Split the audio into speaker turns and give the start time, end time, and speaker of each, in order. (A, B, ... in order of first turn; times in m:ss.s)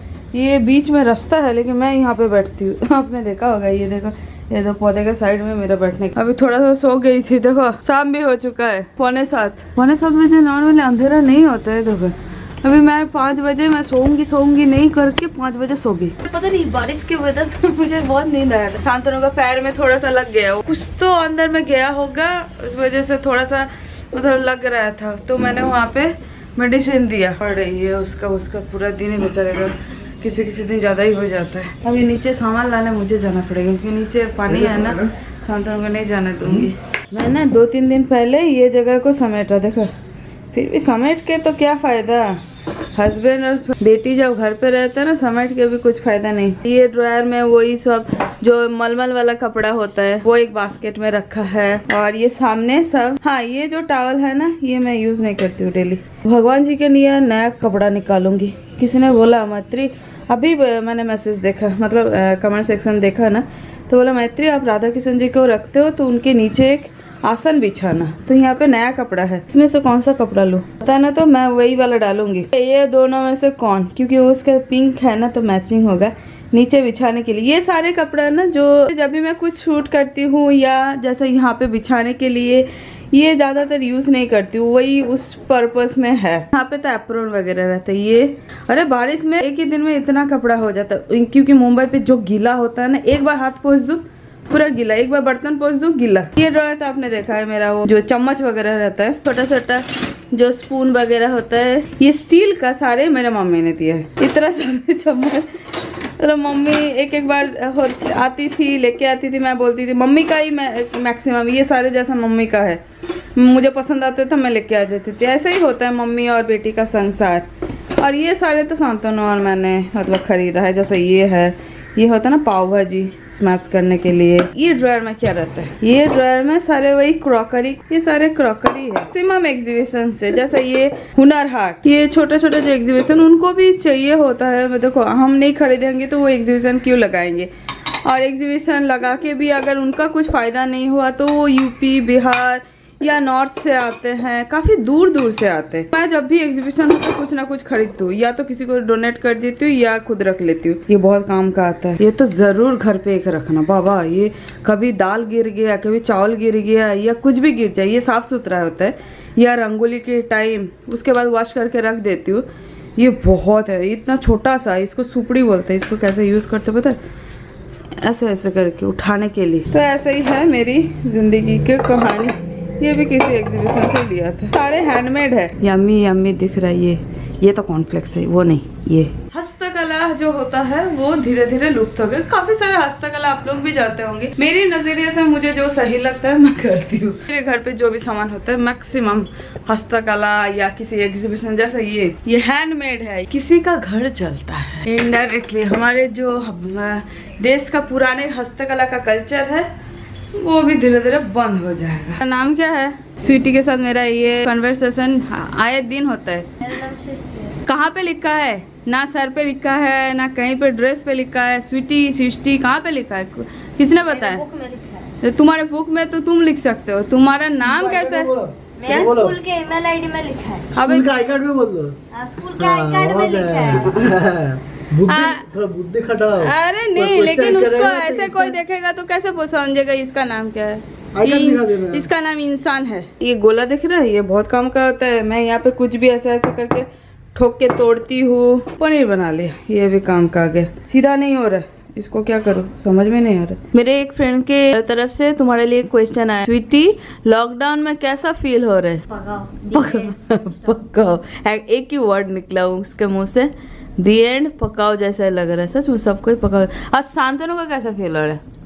0:00.3-0:39.9 A
0:34.5-0:35.1 B
0:36.4-0:36.7 B
0:40.5-0:42.4 A
0:42.9-1:45.6 A
1:46.2-1:52.8 A
1:53.4-1:57.5 A
1:58.0-2:17.5 A
2:18.0-2:42.4 A
2:43.0-2:47.0 A
2:48.0-3:19.7 A
3:20.3-3:26.7 A
3:26.6-3:27.6 C
3:27.7-3:34.4 A
3:34.1-3:35.1 C
3:35.2-3:38.3 A
3:37.6-3:39.4 B
3:38.8-3:40.7 C
3:38.9-3:39.2 A
3:40.8-3:41.1 A
3:40.8-3:42.0 B
3:42.1-3:43.9 C
3:42.6-3:48.6 B
3:45.1-3:45.4 A
3:46.4-4:09.1 A
3:51.1-3:52.1 B
4:09.1-4:10.0 C
4:09.7-4:18.4 A